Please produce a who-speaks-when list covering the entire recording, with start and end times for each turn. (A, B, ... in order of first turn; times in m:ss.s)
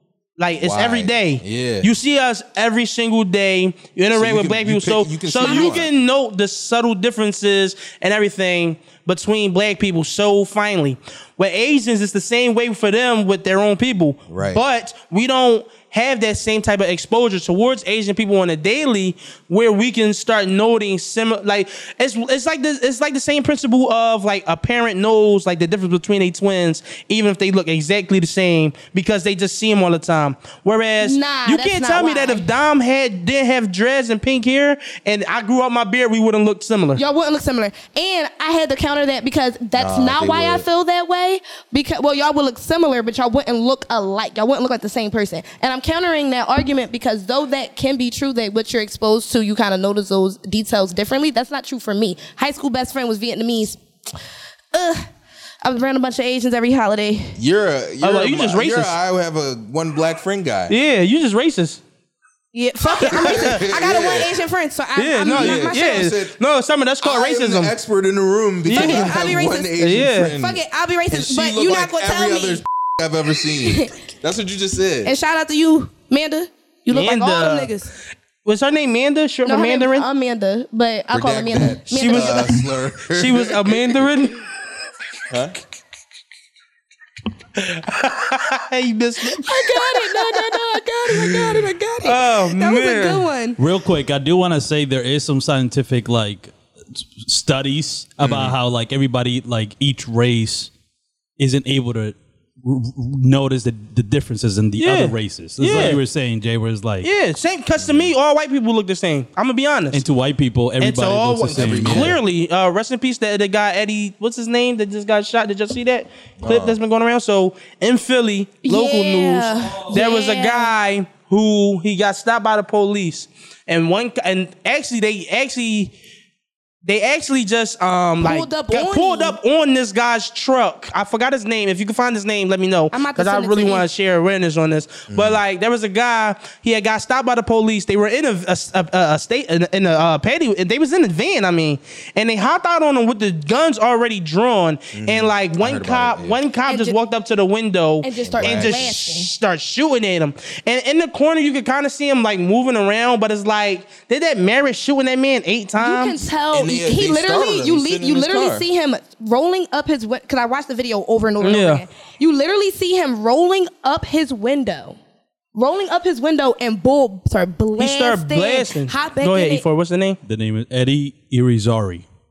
0:00.4-0:37.0 A
0:00.6-0:01.9 B
0:04.1-0:05.9 B
0:05.4-0:05.8 C
0:14.3-0:14.6 B
0:31.0-0:32.5 C
0:37.0-0:53.8 C
0:39.8-0:40.7 B
0:54.7-0:55.1 C
0:55.6-0:57.4 C
0:57.4-1:00.7 B
0:58.0-0:59.0 A
1:00.7-1:01.8 A
1:02.5-1:06.1 C
1:03.0-1:03.6 A
1:03.0-1:04.4 B
1:05.0-1:07.7 A
1:05.3-1:06.4 B
1:07.0-1:15.2 B
1:08.7-1:09.2 A
1:08.7-1:09.8 C
1:09.8-1:10.3 A
1:10.3-1:12.6 C
1:13.5-1:14.0 C
1:15.0-1:17.9 C
1:16.9-1:17.7 A
1:18.4-1:20.1 A
1:19.5-1:22.6 C
1:21.1-1:24.0 B
1:21.9-1:24.4 A
1:25.3-1:25.6 B
1:27.6-1:30.5 A
1:29.4-1:33.6 C
1:32.0-1:33.3 A
1:33.6-1:40.7 D
1:38.2-1:38.6 B
1:41.4-1:47.1 D
1:44.8-1:46.0 A
1:47.0-1:50.0 A
1:47.8-1:48.1 B
1:49.9-1:52.2 D
1:50.8-2:05.9 A
1:51.5-1:52.2 B
1:56.4-1:56.8 B
1:58.6-2:00.7 C
2:06.8-2:36.2 A
2:08.2-2:09.4 C
2:12.9-2:13.9 C
2:15.1-2:15.4 B
2:24.9-2:26.4 B
2:26.7-2:27.0 C
2:28.0-2:29.3 C
2:28.2-2:29.0 B
2:35.8-2:45.0 C
2:36.5-2:38.7 B
2:41.4-2:41.8 A
2:45.5-2:49.6 C
2:47.8-2:50.2 A
2:50.2-2:52.1 D